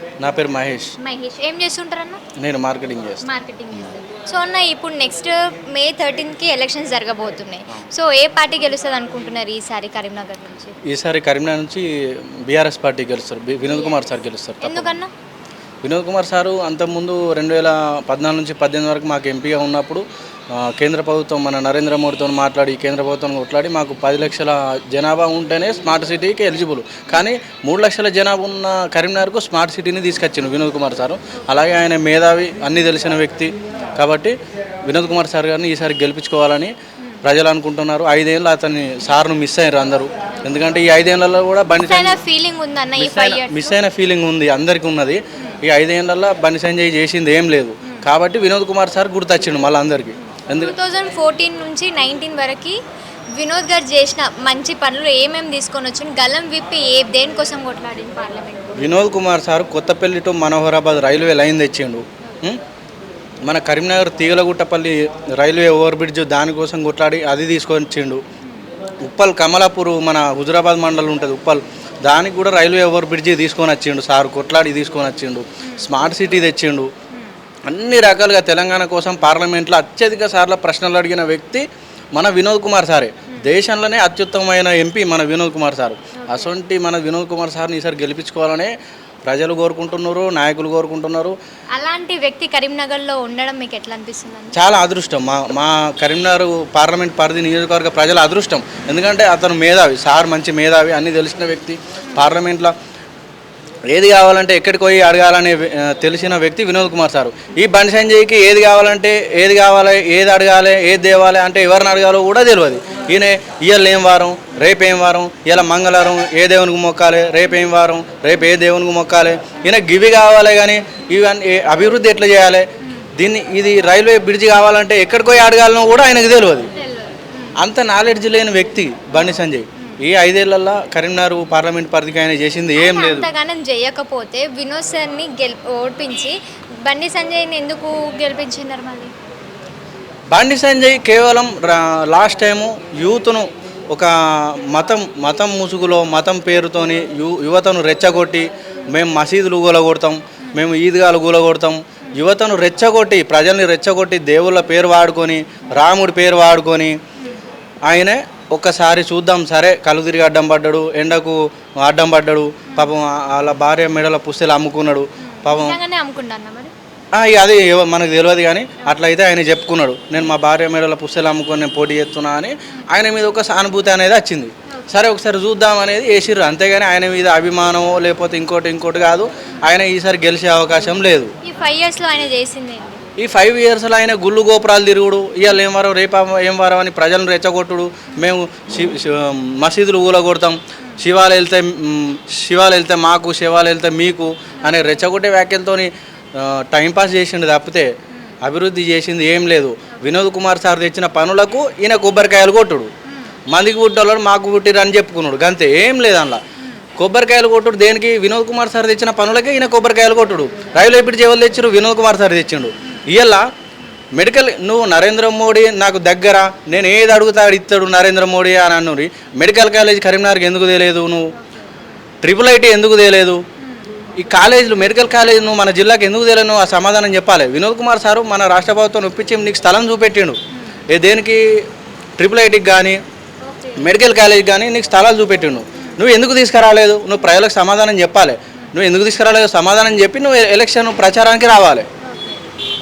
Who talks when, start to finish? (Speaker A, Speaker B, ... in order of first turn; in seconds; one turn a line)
Speaker A: 0.2-0.9
Speaker B: 1.0-2.2
Speaker A: 2.4-3.2
Speaker B: 3.2-10.7
Speaker A: 10.9-15.0
Speaker B: 13.7-14.1
Speaker B: 14.6-15.1
Speaker A: 15.8-42.2
Speaker B: 41.8-43.8
Speaker A: 43.0-50.8
Speaker B: 50.3-52.8
Speaker B: 53.3-58.9
Speaker A: 58.8-62.6
Speaker A: 63.5-68.2
Speaker A: 69.0-76.9
Speaker A: 77.7-88.7
Speaker B: 86.2-86.5
Speaker A: 89.3-91.4
Speaker B: 91.8-94.6
Speaker A: 94.5-102.7
Speaker A: 103.9-126.7
Speaker B: 126.8-127.6
Speaker A: 127.6-133.3
Speaker B: 132.8-139.1
Speaker A: 140.3-157.0
Speaker A: 157.9-165.8
Speaker B: 165.3-166.7
Speaker A: 167.1-181.3
Speaker B: 181.4-183.0
Speaker A: 183.2-197.9
Speaker B: 194.6-195.0
Speaker A: 198.4-202.9
Speaker B: 203.1-203.4
Speaker A: 203.5-206.4
Speaker B: 206.6-206.8
Speaker A: 207.0-213.5
Speaker A: 214.1-221.3
Speaker B: 221.4-221.8
Speaker A: 222.2-223.4
Speaker B: 223.6-223.8
Speaker A: 224.2-230.4
Speaker A: 230.9-231.4
Speaker A: 232.2-233.0
Speaker B: 233.4-233.9
Speaker A: 233.8-241.9
Speaker B: 242.0-242.4